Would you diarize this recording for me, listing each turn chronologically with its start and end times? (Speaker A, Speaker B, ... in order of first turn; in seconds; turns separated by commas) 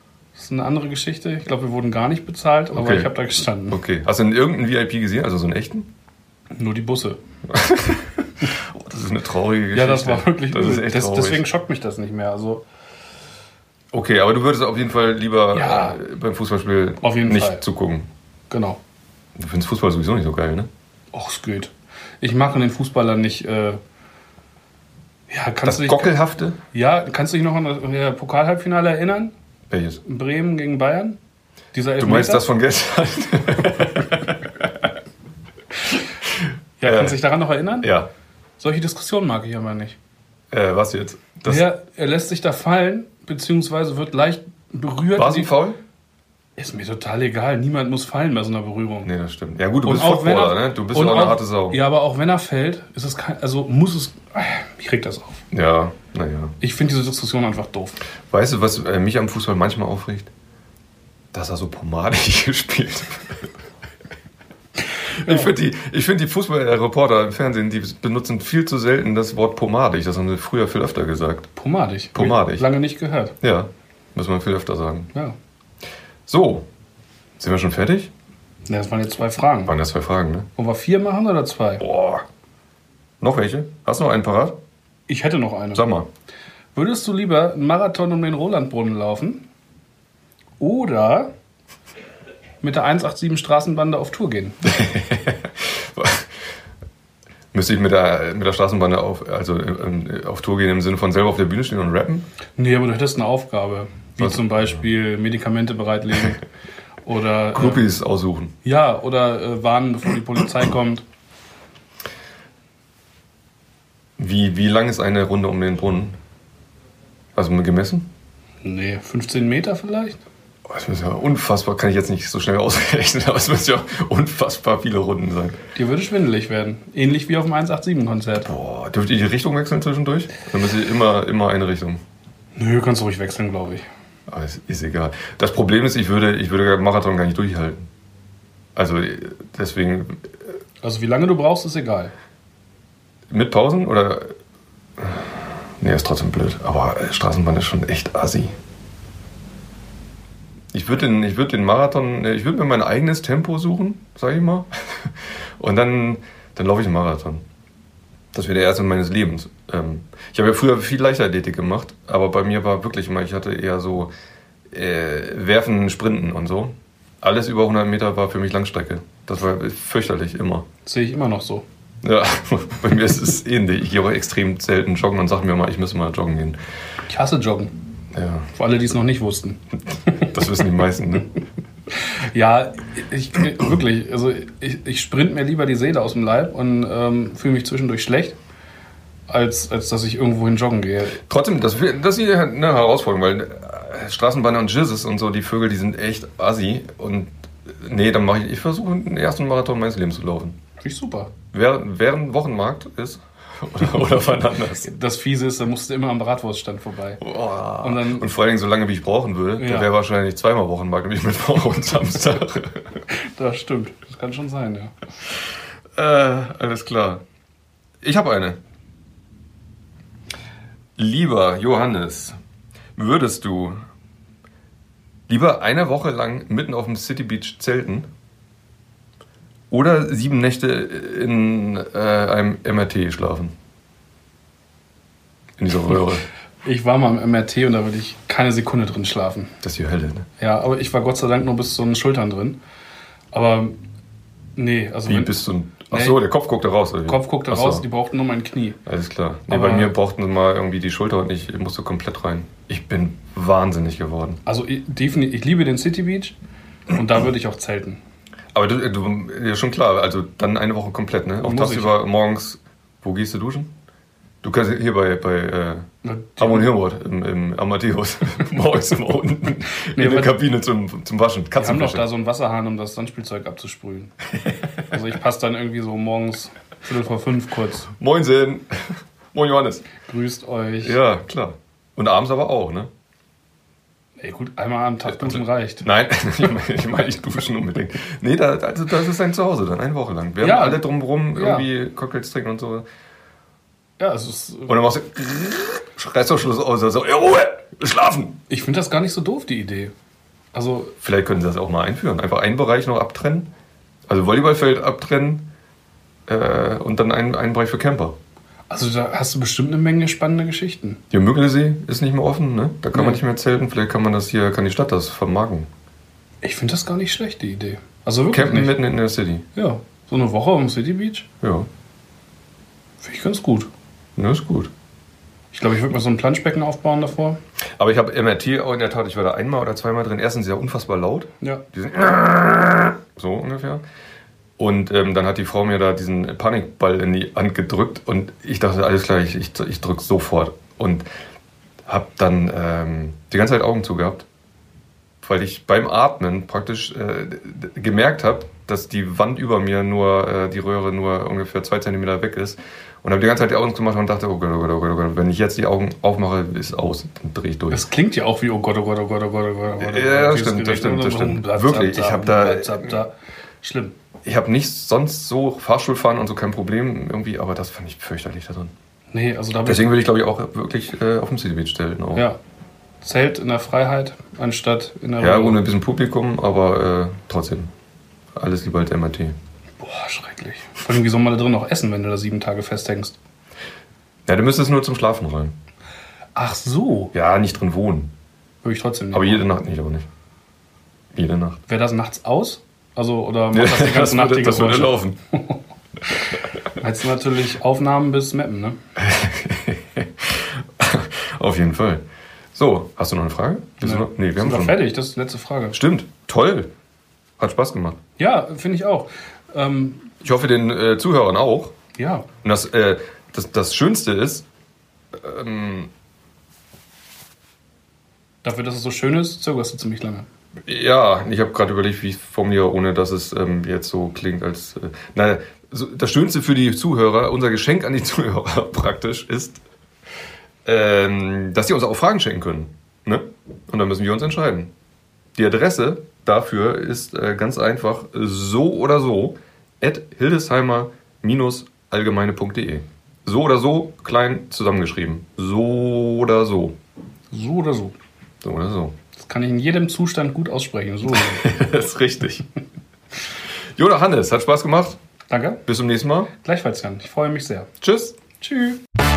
Speaker A: 0.3-3.8, Speaker B: 2.7-3.1, Speaker B: 3.7-5.9, Speaker A: 6.5-7.2, Speaker B: 7.5-11.5, Speaker A: 9.7-12.7, Speaker B: 13.9-18.1, Speaker A: 15.5-16.0, Speaker A: 17.0-17.6, Speaker A: 18.5-18.8, Speaker B: 19.4-20.7, Speaker A: 21.1-23.8, Speaker A: 25.3-26.2, Speaker B: 25.6-26.6, Speaker A: 26.7-29.3, Speaker B: 29.7-30.0, Speaker A: 30.0-31.2, Speaker A: 31.7-32.5, Speaker B: 32.0-34.7, Speaker A: 36.8-37.9, Speaker B: 36.8-37.2, Speaker B: 37.8-38.1, Speaker A: 38.6-40.0, Speaker B: 40.5-41.6, Speaker A: 41.5-45.5, Speaker B: 45.1-45.8, Speaker A: 46.6-49.1, Speaker B: 49.0-51.8, Speaker A: 49.8-55.4, Speaker B: 55.5-56.6, Speaker A: 56.6-58.0, Speaker B: 58.3-60.3, Speaker B: 61.3-63.5, Speaker B: 65.1-71.5, Speaker A: 65.2-65.5, Speaker A: 71.6-73.3, Speaker B: 72.1-72.7, Speaker B: 73.4-75.1, Speaker B: 76.3-76.7, Speaker B: 77.4-78.1, Speaker A: 78.7-79.7, Speaker B: 79.7-80.5, Speaker A: 80.6-81.8, Speaker B: 81.8-82.2, Speaker B: 83.2-84.6, Speaker A: 85.1-85.9, Speaker B: 85.7-86.1, Speaker A: 86.8-89.5, Speaker A: 90.6-91.3, Speaker A: 92.6-94.6, Speaker B: 94.7-96.3, Speaker B: 97.5-102.3, Speaker A: 102.6-106.4, Speaker B: 104.2-104.9, Speaker A: 107.0-107.9, Speaker B: 107.5-108.5, Speaker A: 108.6-111.0, Speaker B: 114.2-116.2, Speaker B: 117.4-118.1, Speaker A: 118.6-120.2, Speaker B: 120.7-125.6, Speaker A: 125.8-128.5, Speaker B: 128.4-132.0, Speaker A: 132.6-133.9, Speaker B: 134.3-137.8, Speaker B: 138.8-140.3, Speaker A: 140.8-142.1, Speaker B: 143.3-144.3, Speaker B: 145.0-148.6, Speaker B: 150.7-157.4, Speaker B: 158.3-164.1, Speaker B: 164.7-170.7, Speaker A: 170.9-171.7, Speaker B: 172.0-176.6, Speaker A: 177.1-177.7, Speaker B: 178.1-178.5, Speaker A: 178.5-180.3, Speaker B: 180.2-181.3, Speaker A: 182.0-188.4, Speaker A: 189.3-191.2, Speaker B: 191.2-200.6, Speaker A: 200.8-201.3, Speaker B: 201.5-204.9, Speaker A: 204.8-207.2, Speaker B: 207.2-213.0, Speaker A: 207.8-208.3, Speaker A: 209.6-209.9, Speaker A: 213.1-214.9, Speaker B: 215.9-217.2, Speaker B: 218.0-218.6, Speaker B: 221.0-222.4, Speaker B: 223.0-223.8, Speaker B: 225.3-228.1, Speaker B: 229.7-233.5, Speaker B: 235.6-236.2, Speaker A: 236.6-239.5, Speaker B: 239.6-240.3, Speaker A: 240.4-242.6, Speaker A: 243.3-243.8, Speaker A: 244.6-245.3, Speaker B: 245.1-247.8, Speaker A: 245.9-246.2, Speaker A: 247.1-248.8, Speaker B: 248.9-254.4, Speaker A: 249.5-249.9, Speaker A: 254.4-256.4, Speaker A: 256.9-258.0, Speaker B: 258.5-263.7, Speaker A: 261.4-262.0, Speaker B: 264.4-265.9, Speaker A: 266.0-266.7, Speaker B: 266.4-272.1, Speaker A: 270.0-270.4, Speaker A: 271.6-274.1, Speaker A: 274.8-277.9, Speaker B: 278.0-279.9, Speaker A: 280.0-281.0, Speaker B: 280.8-282.9, Speaker A: 284.2-285.9, Speaker B: 285.1-292.9, Speaker A: 290.4-291.7, Speaker A: 294.0-294.8, Speaker B: 294.7-298.4, Speaker A: 298.5-299.9, Speaker A: 300.5-300.9, Speaker B: 301.0-303.5, Speaker B: 304.1-305.5, Speaker B: 306.3-308.2, Speaker A: 308.7-311.0, Speaker B: 311.1-315.7, Speaker A: 312.9-313.2, Speaker A: 316.4-318.8, Speaker B: 318.3-319.4, Speaker A: 319.6-321.3, Speaker B: 321.4-321.7, Speaker A: 323.0-323.7, Speaker B: 324.2-324.7, Speaker A: 325.5-327.4, Speaker B: 327.8-333.8, Speaker B: 334.6-341.1, Speaker B: 341.9-344.3, Speaker B: 345.2-357.9, Speaker A: 357.7-363.9, Speaker B: 359.8-363.0, Speaker B: 364.2-368.7, Speaker A: 369.1-369.9, Speaker B: 369.6-372.3, Speaker A: 373.0-375.6, Speaker B: 375.2-377.7, Speaker B: 378.4-379.4, Speaker A: 379.8-383.2, Speaker B: 384.3-385.5, Speaker A: 386.4-387.1, Speaker B: 387.1-388.1, Speaker A: 388.6-389.5, Speaker B: 389.1-390.1, Speaker B: 391.1-391.6, Speaker A: 391.7-395.6, Speaker B: 393.5-395.2, Speaker A: 396.8-398.8, Speaker B: 399.0-402.0, Speaker B: 402.6-404.8, Speaker A: 403.8-405.8, Speaker B: 405.7-406.7, Speaker B: 407.4-408.0, Speaker A: 408.2-410.1, Speaker B: 410.2-411.7, Speaker A: 412.0-412.3, Speaker B: 412.4-414.5, Speaker B: 415.1-415.9, Speaker A: 418.4-420.3, Speaker B: 420.6-429.6, Speaker B: 430.6-434.7, Speaker B: 435.4-446.8, Speaker A: 447.3-448.0, Speaker B: 448.4-448.9, Speaker A: 449.2-451.4, Speaker B: 451.1-452.5, Speaker B: 453.8-455.0, Speaker A: 455.3-455.6, Speaker B: 455.7-456.3, Speaker A: 456.4-457.7, Speaker B: 457.8-458.2, Speaker A: 458.4-458.8